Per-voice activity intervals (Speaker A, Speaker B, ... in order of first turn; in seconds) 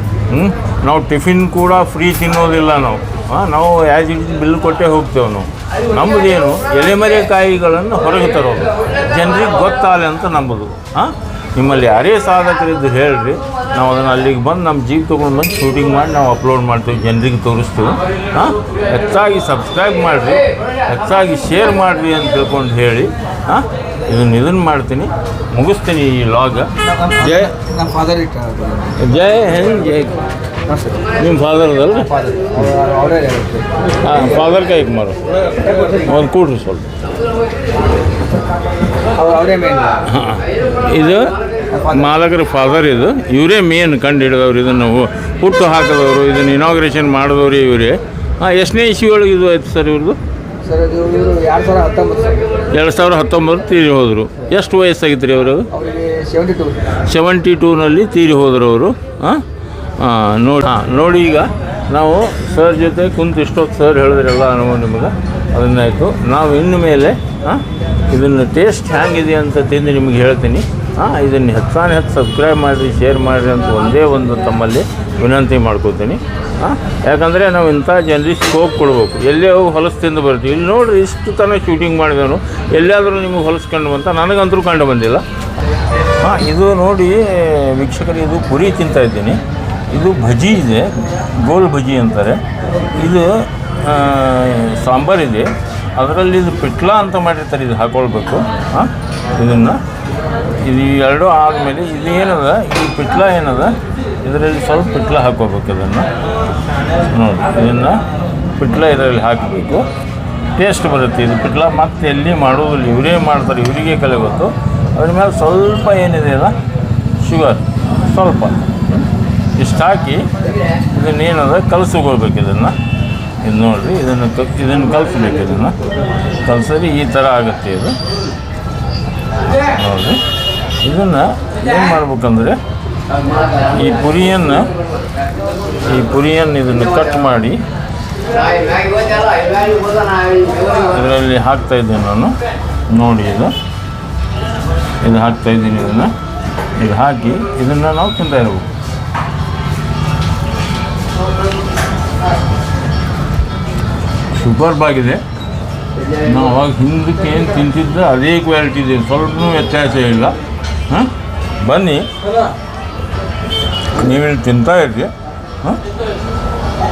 Speaker A: 0.3-27.5, 29.0-30.1, 31.1-32.7, 34.0-35.2, 36.0-36.9, 40.1-41.3, 41.9-50.2, 52.7-55.7, 57.0-59.4, 60.0-85.2, 86.2-89.4, 89.9-92.4, 93.0-99.8, 100.6-106.1, 107.1-108.0, 108.6-109.8, 110.6-116.5, 117.2-119.0, 119.6-120.3, 120.9-122.8, 123.4-125.7, 126.4-128.0, 129.7-130.2, 130.8-132.6, 133.7-134.7, 135.9-137.6, 140.8-142.3, 142.9-143.5, 145.0-146.1, 146.8-148.7, 154.4-155.2, 156.2-160.3, 161.6-162.1, 164.0-165.1
Speaker B: 27.2-28.9, 30.7-31.0, 31.9-34.5, 35.7-36.0, 39.2-40.0, 41.7-42.1, 50.6-52.5, 55.7-56.9